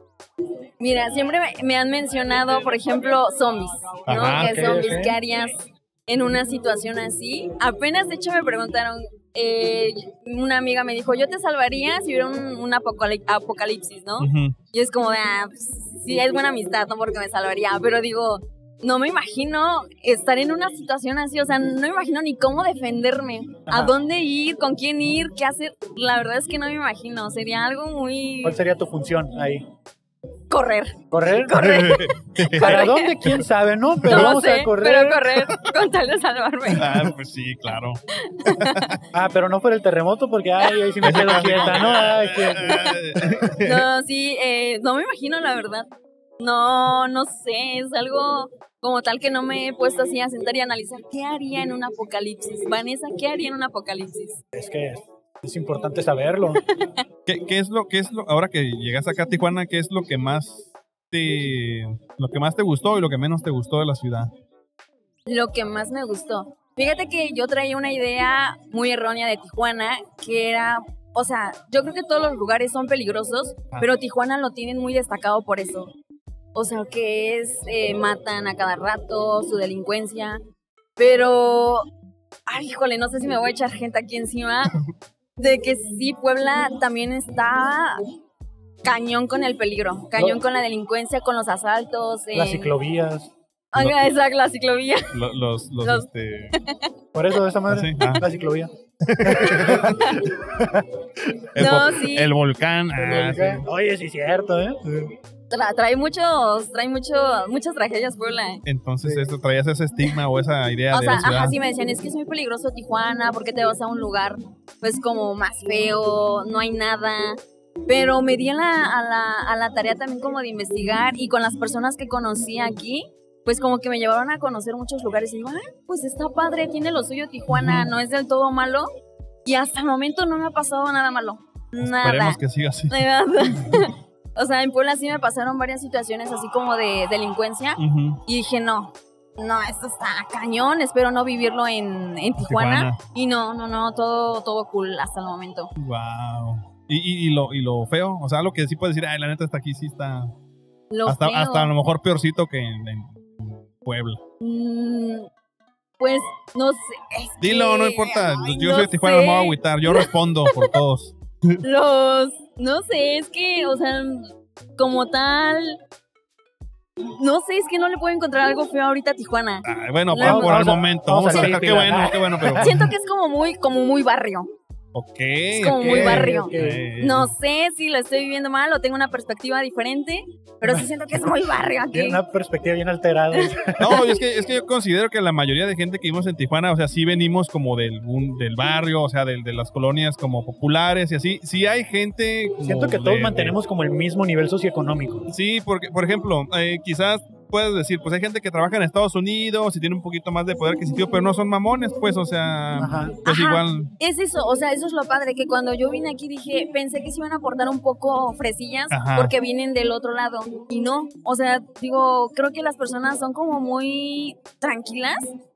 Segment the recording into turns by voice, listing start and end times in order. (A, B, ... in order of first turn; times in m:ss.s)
0:00.8-0:28.6 A
0:04.1-0:04.7 B
0:04.3-0:05.2 C
0:14.2-0:14.6 B
0:28.4-0:29.6 C
0:30.5-0:33.2 A
0:31.1-0:31.8 C
0:31.6-0:32.8 B
0:32.6-0:35.2 C
0:34.1-0:36.9 A
0:36.7-0:39.0 B
0:38.2-0:38.9 A
0:39.1-0:42.8 C
0:41.0-0:41.5 A
0:41.0-0:43.9 B
0:43.6-0:45.9 A
0:46.4-0:54.4 A
0:54.5-0:56.6 C
0:56.7-0:57.0 A
0:57.2-1:04.3 B
1:05.3-1:15.9 A
1:16.5-1:20.4 A
1:21.0-1:21.9 A
1:22.5-1:24.7 A
1:25.4-1:28.0 A
1:28.8-1:32.7 A
1:32.3-1:33.3 C
1:33.7-1:35.2 A
1:35.1-1:36.6 B
1:35.8-1:36.9 A
1:37.1-1:38.7 C
1:37.7-1:38.2 B
1:39.0-1:40.0 B
1:39.2-1:41.4 C
1:40.0-1:40.3 A
1:41.5-1:43.6 B
1:41.6-1:42.3 A
1:43.0-1:45.1 C
1:45.5-1:48.6 A
1:48.6-1:51.6 B
1:50.9-2:08.9 A
2:07.5-2:07.9 B
2:09.4-2:25.7 A
2:11.8-2:13.1 B
2:17.8-2:18.2 B
2:22.4-2:23.0 B
2:25.8-2:30.3 B
2:30.9-2:31.7 A
2:31.0-2:34.2 B
2:34.4-2:35.3 A
2:36.0-2:40.7 A
2:37.4-2:41.6 B
2:41.6-2:45.8 A
2:47.2-2:50.7 A
2:49.6-2:52.9 B
2:50.2-2:52.7 C
2:52.6-2:54.5 A
2:54.9-2:57.3 B
2:55.6-3:02.2 A
2:55.8-2:56.8 C
3:01.9-3:03.8 C
3:03.3-3:04.0 A
3:03.8-3:13.6 B
3:12.6-3:15.3 C
3:15.3-3:23.9 B
3:22.8-3:23.2 C
3:23.2-3:35.3 A
3:28.9-3:29.3 B